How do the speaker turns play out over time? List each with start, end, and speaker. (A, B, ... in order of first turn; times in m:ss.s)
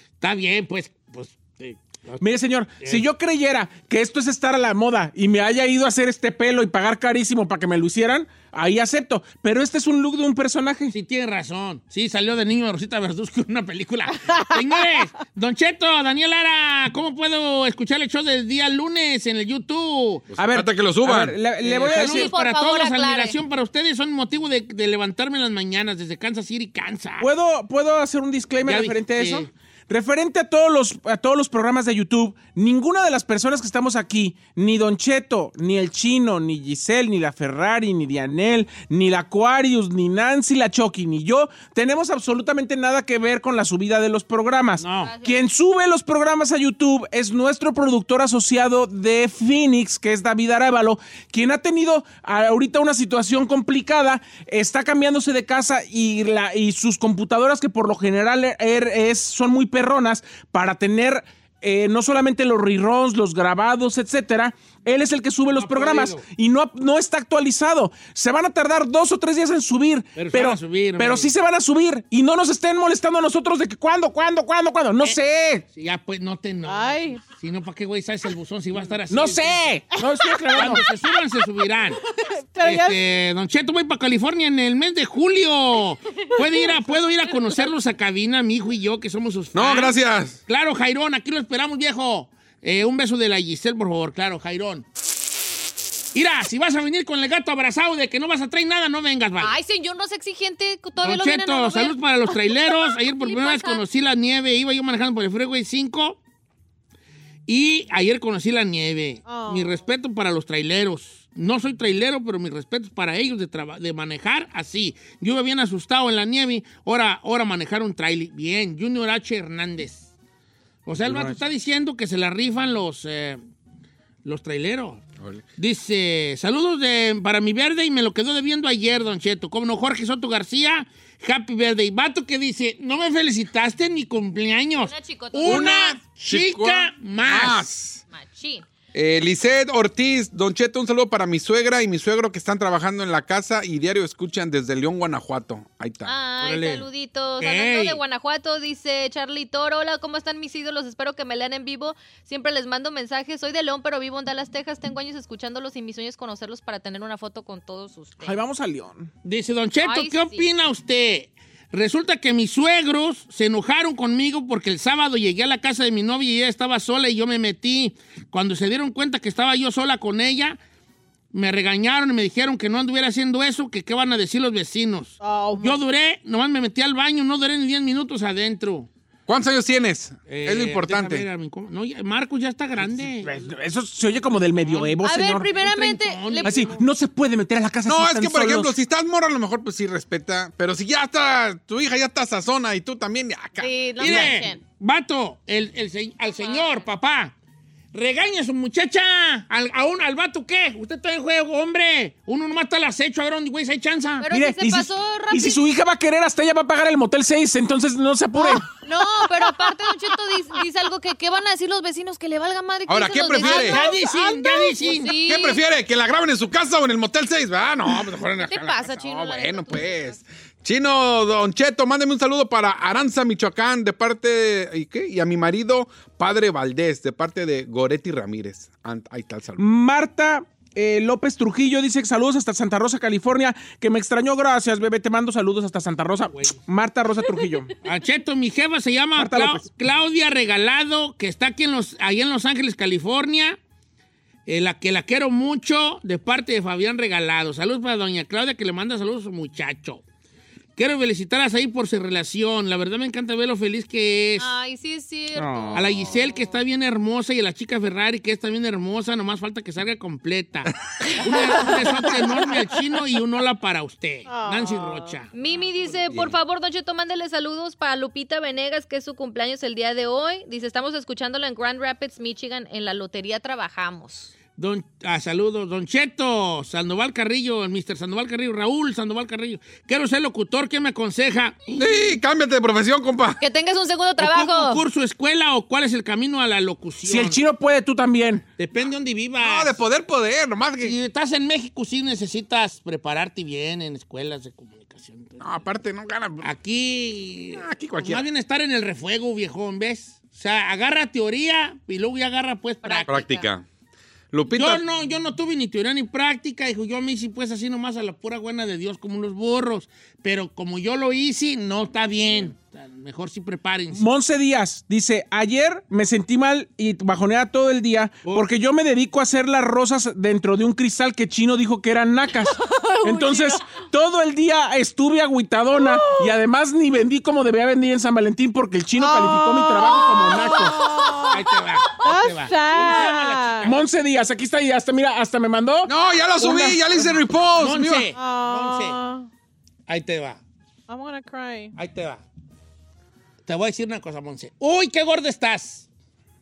0:00.2-0:02.3 A
0:02.2-0:10.9 B
0:02.8-0:03.0 A
0:10.9-0:20.2 A
0:14.2-0:14.6 C
0:20.4-0:21.4 D
0:20.4-0:22.3 B
0:21.6-0:27.3 A
0:21.9-0:23.4 E
0:27.2-1:15.6 B
0:28.6-0:29.5 A
0:44.8-0:45.1 A
0:45.0-0:45.4 E
1:05.5-1:06.2 A
1:10.2-1:11.3 A
1:15.7-1:19.8 A
1:16.7-1:17.2 C
1:19.1-1:20.8 B
1:19.9-1:20.8 C
1:20.5-1:22.0 A
1:22.1-1:23.1 C
1:22.6-1:34.9 A
1:26.4-1:27.0 C
1:29.5-1:30.4 D
1:36.1-1:39.5 A
1:39.4-1:42.3 E
1:41.0-1:46.2 A
1:43.1-1:43.8 E
1:47.5-2:00.1 A
1:49.3-1:49.8 C
2:00.9-2:03.4 A
2:01.0-2:01.4 B
2:04.2-2:05.0 A
2:05.2-2:05.4 D
2:05.6-2:17.7 A
2:14.8-2:16.0 E
2:15.4-2:18.0 D
2:18.1-2:18.6 E
2:18.9-2:26.1 D
2:26.0-2:38.4 E
2:26.4-2:26.9 A
2:27.4-2:28.0 A
2:38.2-2:39.1 B
2:39.2-2:50.6 A
2:39.8-2:40.5 E
2:51.3-2:58.9 A
2:55.2-2:55.8 C
2:59.3-3:01.3 D
3:00.3-3:03.5 A
3:02.9-3:05.5 B
3:04.5-3:05.0 A
3:05.0-3:06.7 E
3:05.5-3:06.8 A
3:06.4-3:08.7 B
3:07.9-3:14.3 D
3:13.6-3:14.6 E
3:14.0-3:17.3 A
3:16.4-3:16.9 E
3:17.9-3:24.2 A
3:24.2-3:25.6 E
3:24.3-3:28.7 B
3:28.6-3:33.8 E
3:32.9-3:33.8 D
3:33.4-3:35.1 A
3:33.5-3:35.0 C
3:34.8-3:35.6 E
3:35.2-3:49.6 D
3:38.4-3:40.2 E
3:49.6-3:57.7 B
3:56.3-3:56.6 A
3:57.8-4:03.6 A
3:59.2-3:59.7 B
4:04.5-4:10.0 A
4:10.8-4:14.5 A
4:14.4-4:16.6 E
4:15.3-4:15.9 B
4:15.7-4:26.3 A
4:24.3-4:25.2 C
4:25.3-4:34.3 E
4:34.6-4:41.8 A
4:41.7-4:43.4 D
4:43.4-4:44.8 E
4:44.2-4:47.4 A
4:47.0-4:48.4 B
4:48.6-4:49.8 A
4:49.4-4:51.0 D
4:50.8-4:55.6 A
4:55.4-4:56.5 D
4:56.4-5:03.3 A
4:57.6-4:58.3 D
5:02.8-5:03.5 E
5:03.1-5:03.6 D
5:04.3-5:04.8 D
5:04.5-5:14.1 A
5:13.9-5:31.0 B
5:22.6-5:23.8 C
5:25.8-5:26.4 C
5:29.0-5:31.5 C
5:31.3-5:33.8 A
5:32.0-5:33.8 C
5:33.6-5:36.9 B
5:35.9-5:38.1 D
5:37.6-5:39.0 A
5:38.2-5:39.3 C
5:39.9-5:40.4 A
5:40.9-5:41.8 C
5:41.8-5:42.2 A
5:43.5-5:45.9 A